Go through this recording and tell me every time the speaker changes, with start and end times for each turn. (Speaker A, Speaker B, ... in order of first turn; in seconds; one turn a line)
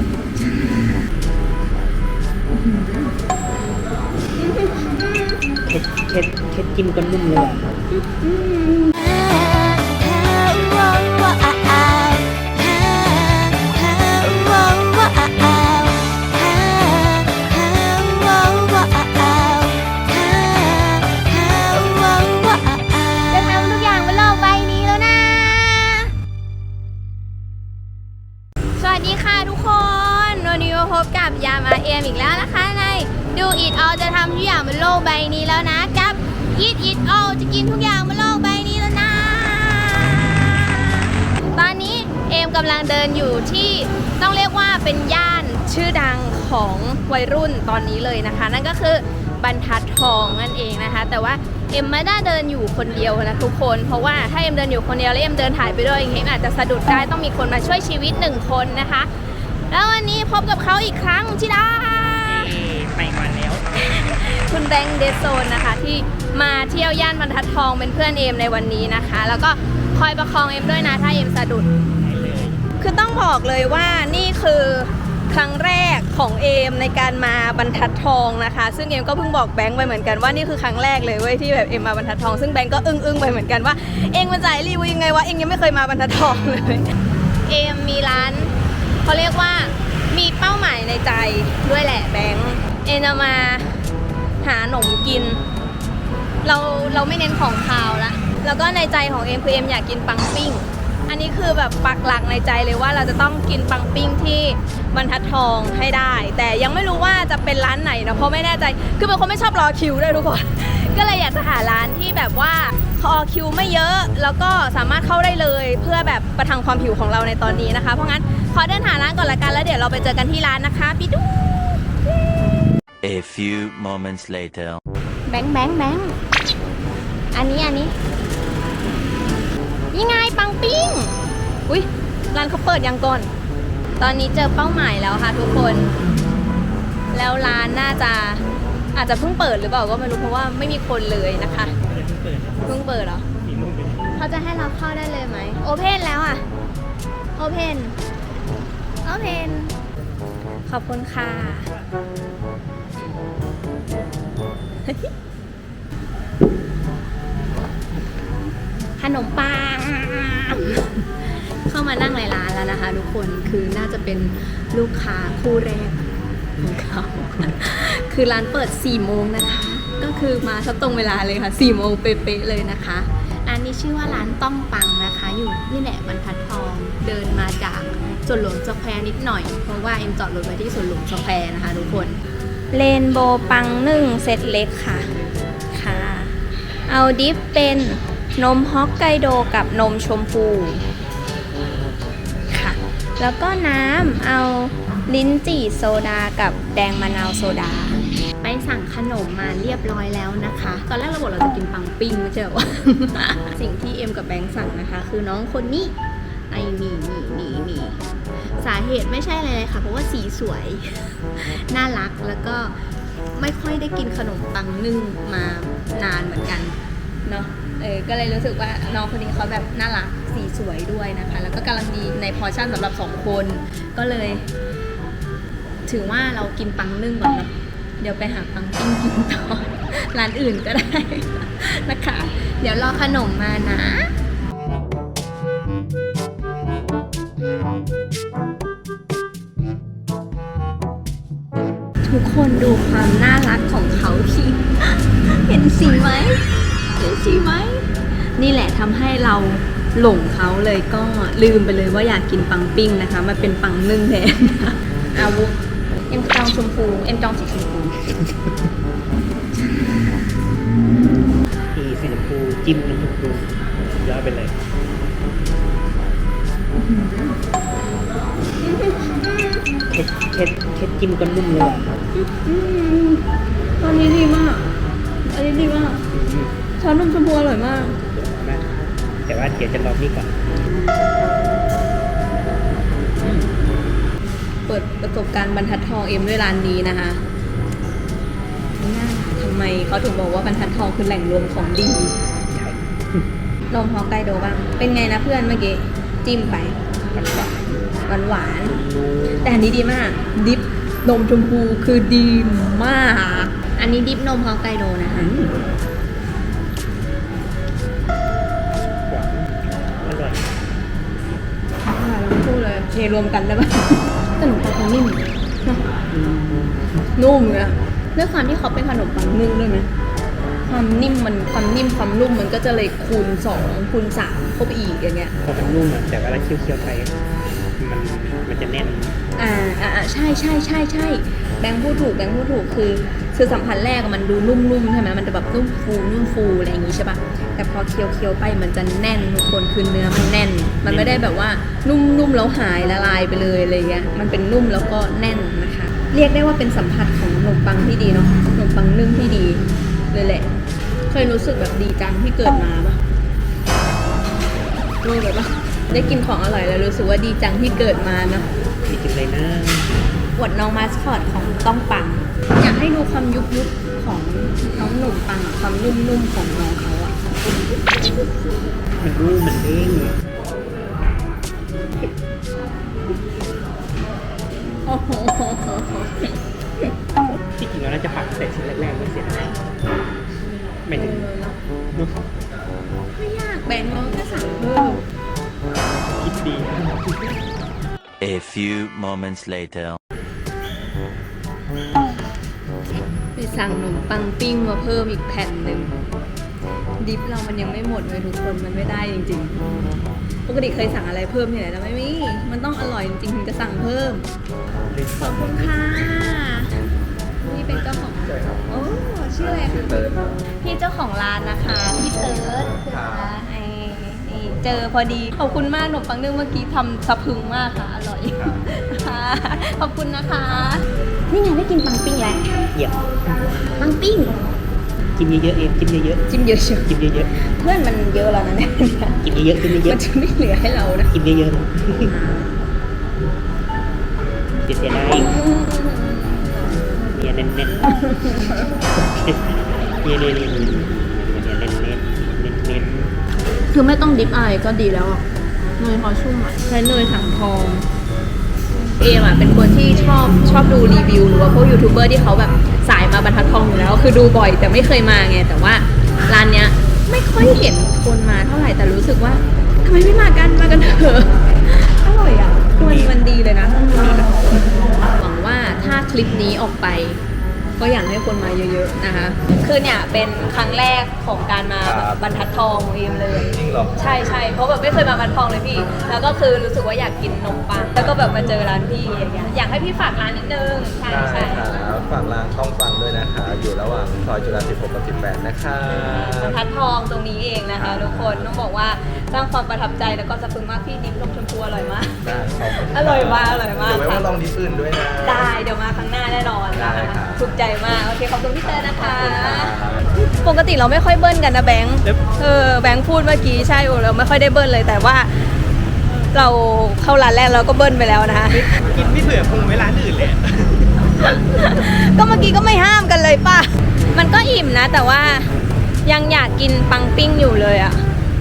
Speaker A: 2.5-3.1
Speaker A: 4.4-5.4
Speaker B: 5.7-7.7
Speaker A: 7.9-26.1
Speaker A: 28.8-59.1
Speaker A: 59.7-62.6
Speaker B: 62.2-63.6
Speaker A: 63.7-71.7
Speaker B: 72.0-72.6
Speaker A: 72.8-86.8
Speaker A: 87.5-88.5
Speaker A: 89.0-93.8
Speaker A: 94.4-95.4
Speaker A: 96.5-121.8
Speaker C: 123.0-124.8
Speaker A: 125.3-126.2
Speaker A: 127.3-127.9
Speaker A: 129.9-131.1
Speaker A: 131.7-133.3
Speaker A: 134.0-135.9
Speaker A: 137.1-138.4
Speaker A: 138.9-141.7
Speaker B: 141.7-142.8
Speaker A: 142.6-143.3
Speaker B: 143.4-144.2
Speaker A: 144.2-146.4
Speaker A: 147.4-147.9
Speaker A: 149.0-149.8
Speaker A: 150.7-151.7
Speaker A: 154.8-155.1
Speaker A: 159.0-166.0
Speaker A: 166.6-185.1
Speaker A: 185.7-186.3
Speaker A: 186.9-190.8
Speaker A: 192.5-205.9
Speaker A: 206.5-208.0
Speaker A: 208.6-212.8
Speaker A: 213.3-224.5
Speaker A: 225.9-234.1
Speaker A: 242.0-246.4
Speaker A: 247.0-255.6
Speaker A: 256.1-257.9
Speaker B: 261.8-264.6
Speaker A: 266.8-267.4
Speaker A: 268.6-269.7
Speaker B: 269.9-271.9
Speaker A: 272.1-274.7
Speaker A: 275.2-276.0
Speaker B: 276.1-276.5
Speaker A: 276.8-278.0
Speaker B: 277.9-280.4
Speaker B: 283.2-283.5
Speaker A: 284.7-287.2
Speaker A: 288.8-292.1
Speaker B: 292.5-293.3
Speaker A: 293.7-296.8
Speaker B: 297.1-297.9
Speaker A: 298.1-298.8
Speaker B: 298.6-299.6
Speaker A: 299.4-305.6
Speaker B: 309.1-310.5
Speaker A: 311.9-316.0
Speaker B: 316.1-316.9
Speaker A: 317.2-319.9
Speaker A: 320.7-325.3
Speaker B: 325.4-327.1
Speaker B: 327.8-329.2
Speaker A: 329.4-350.5
Speaker B: 340.9-341.3
Speaker A: 351.1-353.0
Speaker A: 355.0-358.5
Speaker B: 358.9-359.9
Speaker A: 360.4-367.2
Speaker B: 369.0-370.2
Speaker A: 374.9-376.9
Speaker B: 377.5-379.6
Speaker B: 380.9-381.3
Speaker A: 380.9-381.6
Speaker A: 383.1-385.0
Speaker B: 385.8-387.4
Speaker C: 388.2-390.0
Speaker A: 393.4-396.0
Speaker A: 397.0-399.6
Speaker A: 400.5-404.2
Speaker B: 405.0-405.4
Speaker A: 405.2-406.8
Speaker A: 407.4-422.5
Speaker D: 408.2-408.6
Speaker D: 409.4-410.4
Speaker D: 412.6-413.3
Speaker B: 422.7-423.0
Speaker A: 423.7-424.4
Speaker B: 425.2-426.2
Speaker A: 426.3-431.1
Speaker B: 426.9-427.3
Speaker B: 429.2-430.0
Speaker B: 431.1-432.1
Speaker A: 432.0-432.6
Speaker B: 434.6-435.3
Speaker A: 435.1-436.6
Speaker B: 437.1-443.2
Speaker A: 438.0-438.7
Speaker A: 443.7-445.2
Speaker A: 445.8-447.9
Speaker A: 449.0-464.2
Speaker B: 462.8-463.2
Speaker B: 464.0-464.4
Speaker A: 465.1-467.2
Speaker A: 467.8-481.7
Speaker D: 471.8-472.2
Speaker D: 473.5-473.9
Speaker D: 481.1-486.6
Speaker A: 486.0-494.3
Speaker D: 487.8-488.4
Speaker D: 492.2-495.5
Speaker A: 495.2-505.5
Speaker D: 496.7-497.4
Speaker D: 498.7-500.0
Speaker A: 506.3-508.8
Speaker B: 508.6-510.7
Speaker A: 511.0-515.5
Speaker A: 516.0-518.0